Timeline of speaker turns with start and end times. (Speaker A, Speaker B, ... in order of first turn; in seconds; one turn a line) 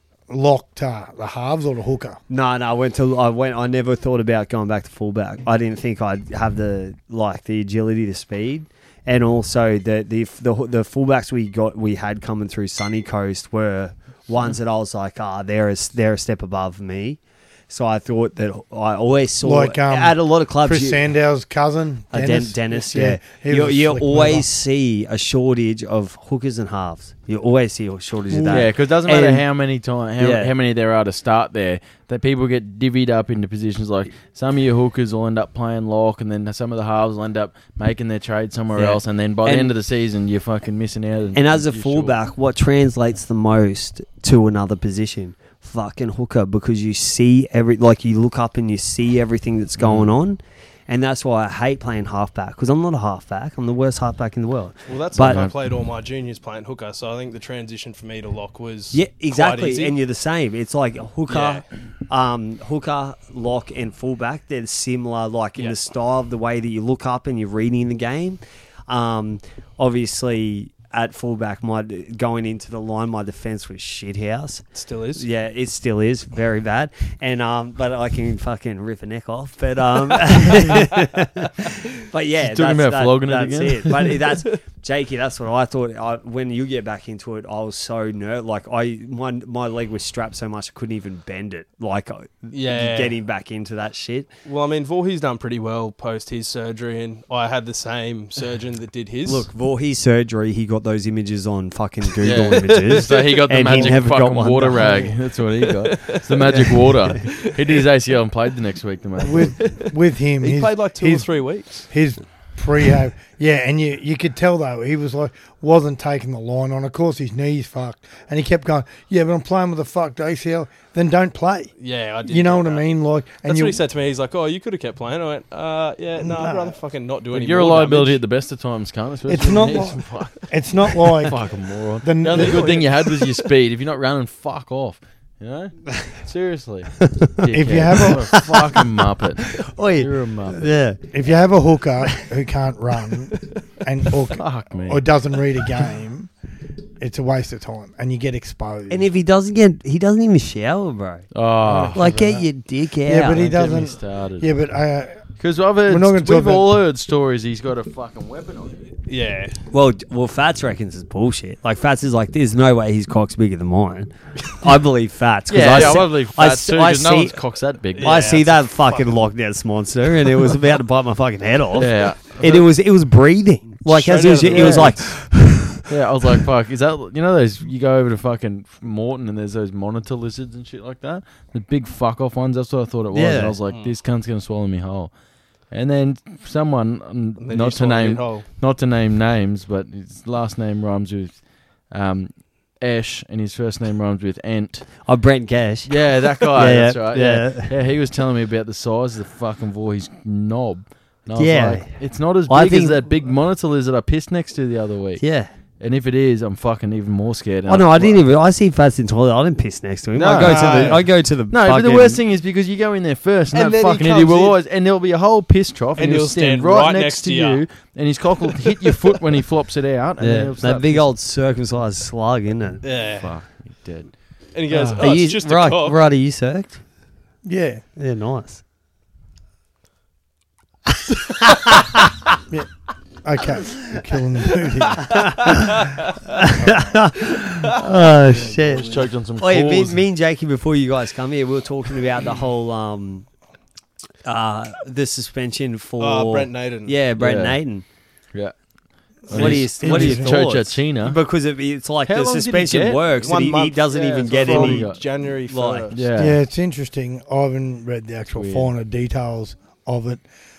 Speaker A: 0.3-2.2
Speaker B: 2.3-21.0
Speaker A: 19.4-24.4
Speaker B: 22.1-29.4
Speaker A: 28.3-28.6
Speaker C: 28.5-42.1
Speaker B: 30.2-30.5
Speaker B: 38.7-39.7
Speaker B: 41.3-55.4
Speaker C: 49.8-50.1
Speaker D: 54.9-60.0
Speaker C: 55.1-55.5
Speaker B: 58.9-94.3
Speaker D: 61.3-61.6
Speaker D: 74.7-75.2
Speaker C: 82.4-83.9
Speaker D: 92.5-93.1
Speaker D: 94.4-99.5
Speaker B: 99.2-105.1
Speaker C: 102.2-109.5
Speaker D: 102.9-103.2
Speaker A: 104.8-105.1
Speaker D: 105.8-107.8
Speaker B: 106.5-106.9
Speaker A: 109.2-111.3
Speaker D: 109.4-111.9
Speaker A: 111.9-121.7
Speaker D: 121.8-122.8
Speaker A: 122.2-123.8
Speaker D: 123.4-128.2
Speaker A: 126.2-126.8
Speaker C: 127.3-140.7
Speaker A: 129.3-131.4
Speaker A: 132.0-132.8
Speaker D: 132.3-132.8
Speaker B: 137.0-137.4
Speaker A: 137.5-138.3
Speaker B: 138.0-138.8
Speaker B: 139.4-141.0
Speaker A: 141.1-146.3
Speaker C: 144.3-145.0
Speaker A: 147.0-149.1
Speaker B: 148.9-151.3
Speaker C: 151.3-152.4
Speaker D: 151.7-152.0
Speaker B: 151.9-153.4
Speaker A: 153.0-155.2
Speaker C: 153.3-154.5
Speaker C: 155.4-158.9
Speaker A: 155.8-156.7
Speaker D: 159.1-159.6
Speaker B: 159.7-167.4
Speaker C: 165.5-168.3
Speaker D: 167.9-169.2
Speaker B: 168.0-175.9
Speaker C: 171.8-172.7
Speaker D: 173.9-175.2
Speaker C: 174.5-174.9
Speaker C: 175.9-185.1
Speaker B: 183.1-183.6
Speaker D: 183.7-183.9
Speaker C: 185.7-194.9
Speaker D: 187.4-188.4
Speaker B: 195.0-197.7
Speaker C: 195.9-205.2
Speaker B: 201.3-201.9
Speaker B: 202.5-203.0
Speaker B: 205.2-205.5
Speaker C: 205.8-208.2
Speaker B: 207.7-212.2
Speaker C: 210.1-211.0
Speaker A: 210.4-210.9
Speaker D: 210.5-211.0
Speaker C: 211.5-221.1
Speaker D: 213.5-214.6
Speaker D: 216.0-217.6
Speaker D: 218.6-219.0
Speaker B: 220.2-222.8
Speaker D: 222.8-223.3
Speaker C: 223.1-224.2
Speaker D: 224.5-226.0
Speaker C: 224.7-225.0
Speaker B: 225.0-226.8
Speaker A: 227.4-227.8
Speaker B: 227.9-228.6
Speaker B: 231.3-232.1
Speaker A: 233.2-235.5
Speaker B: 235.0-243.3
Speaker A: 236.6-236.9
Speaker C: 238.6-240.0
Speaker B: 244.2-247.8
Speaker D: 246.0-247.0
Speaker C: 247.2-247.6
Speaker C: 249.2-251.2
Speaker B: 249.3-254.9
Speaker A: 249.3-250.4
Speaker C: 252.1-253.0
Speaker D: 253.1-256.0
Speaker C: 254.2-255.0
Speaker B: 255.5-255.9
Speaker C: 255.9-256.4
Speaker A: 256.1-260.2
Speaker C: 258.4-258.7